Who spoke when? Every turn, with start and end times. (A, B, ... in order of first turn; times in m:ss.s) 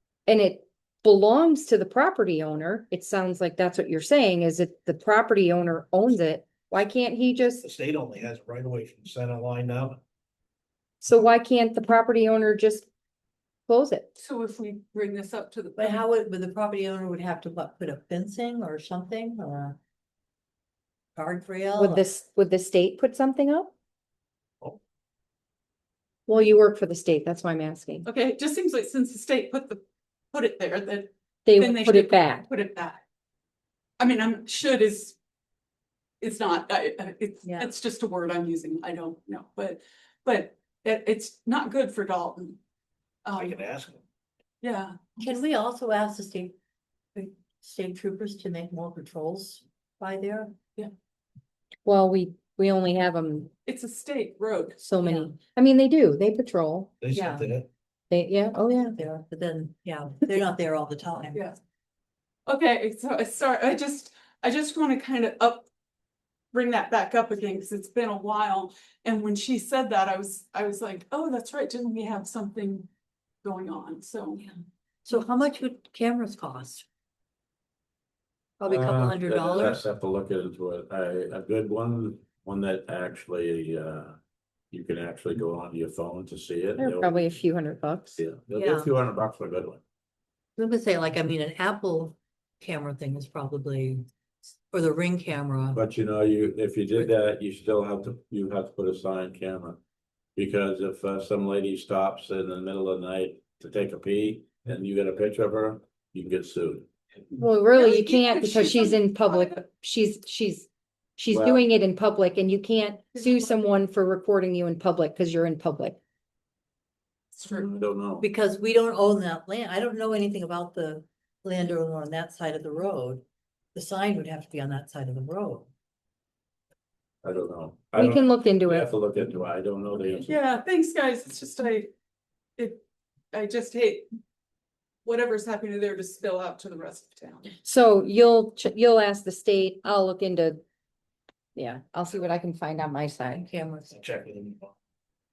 0:00.3-0:07.6 A
0:07.6-0:10.0 B
0:11.0-0:12.9 A
0:13.7-0:14.2 A
0:14.2-0:16.1 C
0:15.8-0:19.8 D
0:21.2-0:22.1 D
0:21.8-0:23.7 A
0:26.3-0:28.0 A
0:28.0-0:29.8 C
0:30.3-0:33.0 C
0:31.4-0:32.5 A
0:34.0-0:35.2 C
0:36.2-0:42.6 C
0:37.4-0:37.7 D
0:43.2-0:43.7 C
0:43.3-0:44.0 B
0:44.6-0:45.4 C
0:45.2-0:46.6 D
0:47.2-0:50.6 D
0:51.8-0:53.5 A
0:53.7-0:54.8 C
0:54.8-0:56.9 A
0:55.0-0:55.4 D
0:57.0-0:57.7 B
0:57.1-0:57.5 D
0:58.1-0:59.0 A
0:58.7-1:01.4 D
1:02.5-1:05.7 C
1:06.5-1:12.9 C
1:13.4-1:14.4 C
1:15.0-1:16.9 D
1:18.6-1:19.8 D
1:18.7-1:24.2 E
1:24.7-1:27.1 E
1:26.8-1:28.2 A
1:28.2-1:29.8 E
1:28.5-1:28.9 D
1:30.6-1:34.0 D
1:34.7-1:35.8 D
1:35.7-1:39.8 E
1:40.4-1:46.9 E
1:47.3-1:56.0 A
1:47.7-1:49.6 C
1:53.2-1:53.6 C
1:57.3-1:57.7 C
1:57.7-1:58.2 E
1:58.2-2:03.2 D
2:03.8-2:05.7 D
2:07.2-2:10.3 E
2:08.0-2:08.9 A
2:10.3-2:11.9 C
2:12.6-2:14.1 C
2:15.0-2:17.5 C
2:17.6-2:20.6 A
2:21.5-2:23.5 A
2:23.4-2:24.0 D
2:23.9-2:24.7 B